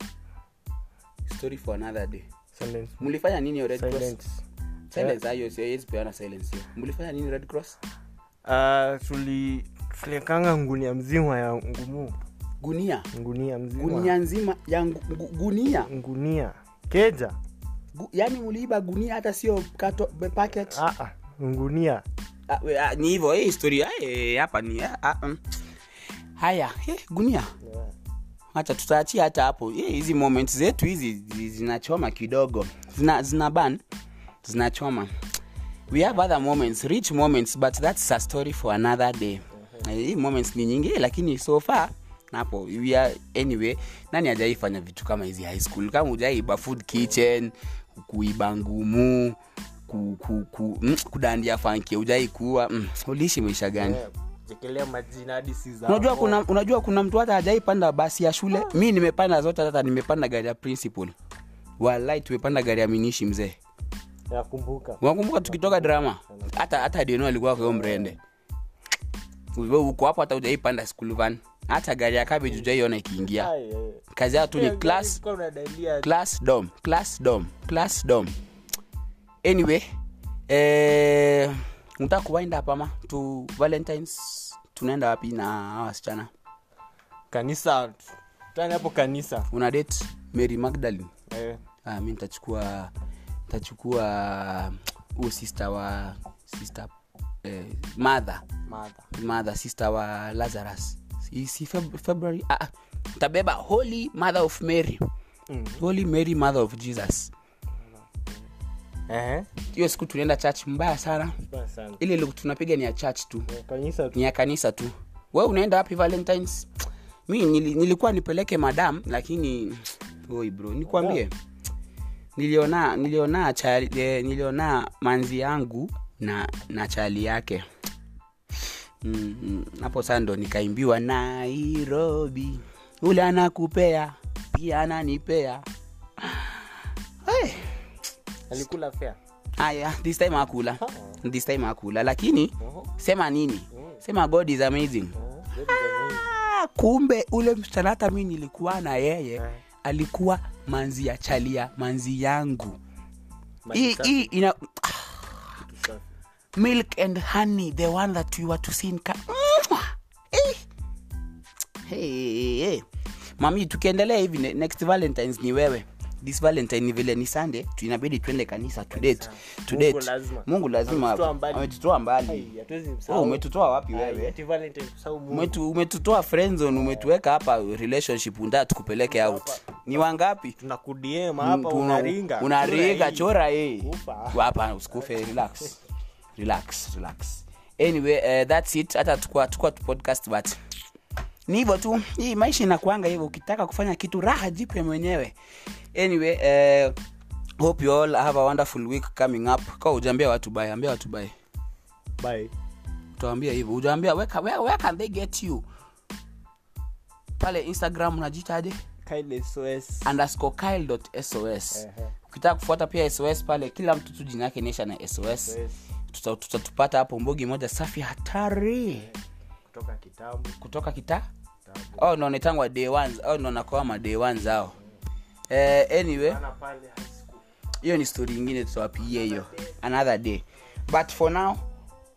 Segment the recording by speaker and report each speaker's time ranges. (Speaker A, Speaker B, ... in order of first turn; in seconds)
Speaker A: 1.3-2.3, 3.0-4.2, 4.9-7.8, 12.6-13.1, 13.8-15.9, 17.9-20.8, 22.5-25.4, 26.4-27.5, 28.5-33.8, 34.4-35.1, 35.9-54.0, 55.9-61.1, 61.8-63.6, 65.0-68.2, 69.5-73.5, 74.1-75.2, 76.0-78.4, 79.4-79.8, 80.5-86.3, 89.5-91.1, 91.8-92.9, 93.5-96.9, 97.5-98.5, 99.1-105.0, 105.8-107.3, 109.7-111.4, 112.0-113.5, 114.1-116.7, 117.3-121.3, 122.4-127.7, 129.0-135.6, 136.2-136.7, 137.2-137.8, 139.6-145.2, 146.0-152.8, 153.7-155.5, 156.6-160.6, 161.9-162.8, 163.4-172.5, 173.1-174.4, 175.3-180.6, 181.4-185.8, 186.4-190.6, 191.5-195.3, 195.9-197.0, 197.6-201.3, 203.2-205.7, 207.4-208.8, 210.0-215.6, 216.1-219.1, 220.6-221.2, 222.0-224.8, 225.5-226.4, 227.8-231.6
Speaker B: 2.5-3.0, 3.7-4.4, 8.4-12.2, 13.1-14.1, 15.8-17.4, 20.7-22.1, 27.6-27.9, 35.9-36.2, 39.5-39.9, 53.8-56.4, 64.3-66.9, 67.6-68.1, 73.3-76.2, 87.3-89.5, 91.3-91.6, 98.7-99.1, 105.5-105.8, 107.8-108.5, 109.1-109.5, 111.4-112.0, 113.5-114.2, 120.9-121.2, 138.5-139.2, 140.8-141.2, 142.6-142.9, 143.7-144.0, 145.2-146.3, 153.7-154.3, 155.6-156.1, 168.9-171.7, 172.3-175.6, 176.7-177.1, 178.9-180.1, 180.6-183.3, 183.8-185.1, 202.2-202.5, 209.1-210.2, 211.7-212.1, 215.4-215.8, 218.9-220.6, 221.7-222.1, 226.1-227.4, 229.1-229.6